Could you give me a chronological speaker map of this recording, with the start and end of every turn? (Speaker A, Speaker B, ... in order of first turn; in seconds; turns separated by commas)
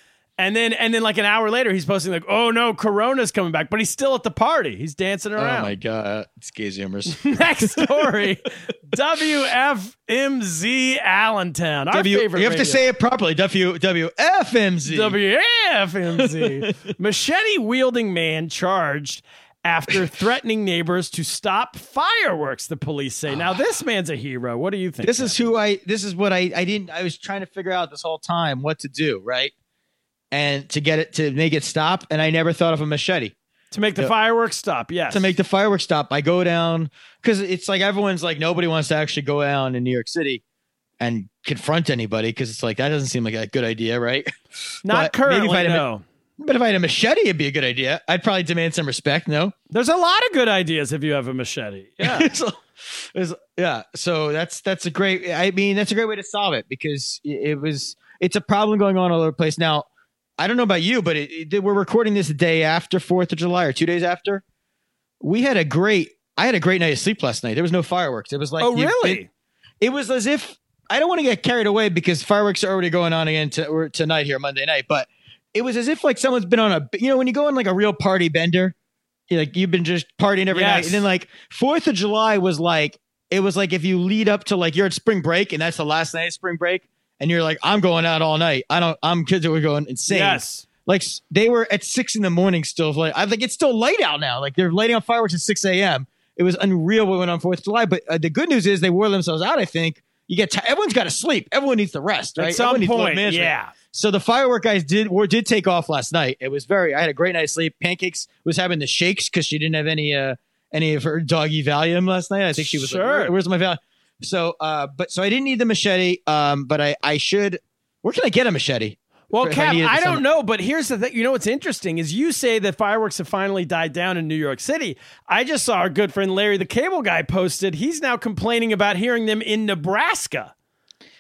Speaker A: 0.4-5.7, Speaker B: 5.4-7.9, Speaker A: 7.2-12.8, Speaker B: 11.9-15.2, Speaker A: 14.9-25.4, Speaker B: 16.2-16.7, Speaker B: 25.0-29.5, Speaker B: 30.3-33.4, Speaker A: 33.7-35.3, Speaker B: 35.1-40.4, Speaker B: 41.0-45.9, Speaker A: 44.9-46.0, Speaker B: 46.4-49.5, Speaker A: 49.7-52.3, Speaker B: 52.0-59.9, Speaker B: 60.4-64.4, Speaker B: 65.2-69.2, Speaker A: 68.6-69.3, Speaker B: 69.8-78.8, Speaker B: 79.3-120.2, Speaker A: 80.5-81.0, Speaker A: 90.1-90.7, Speaker A: 102.4-103.7, Speaker A: 112.6-113.3, Speaker A: 119.3-130.5